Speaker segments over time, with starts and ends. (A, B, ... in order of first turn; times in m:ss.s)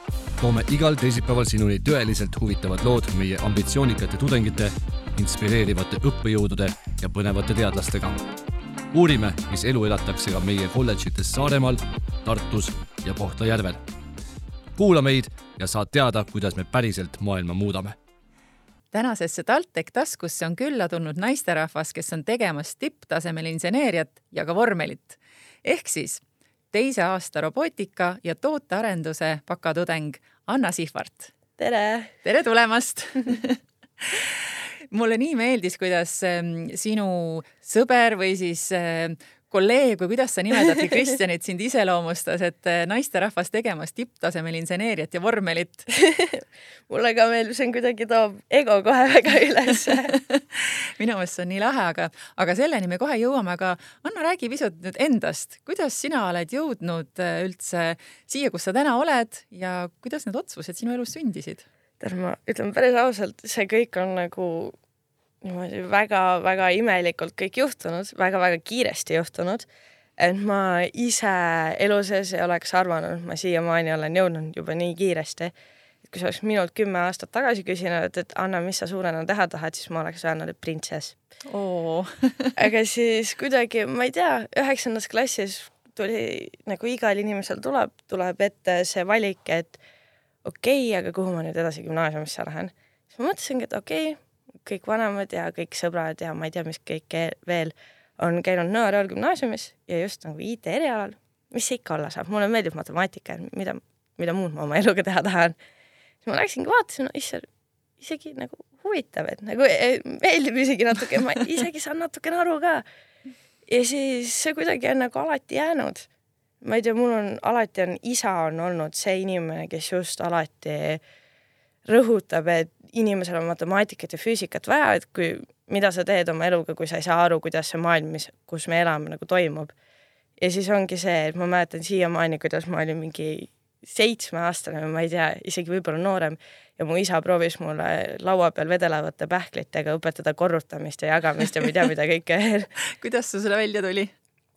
0:00.4-0:08.2 A
0:08.9-0:13.8 A
0:14.8-0:18.0 A
0:18.9-0:31.3 B
0:31.6-0:32.1 C
0:32.2-0:45.9 B
0:45.9-0:50.1 C
0:49.9-1:01.6 B
1:02.0-1:04.8 C
1:05.4-1:09.7 C
1:10.2-1:15.5 C
1:16.0-1:21.2 C
1:21.4-1:22.6 B
1:22.6-1:29.8 C
1:30.4-1:45.6 C
1:46.2-1:47.5 C
1:48.0-1:52.8 C
1:53.7-1:56.1 C
1:56.6-2:01.0 C
2:01.8-2:09.7 C
2:10.4-2:22.7 C
2:22.9-2:24.1 B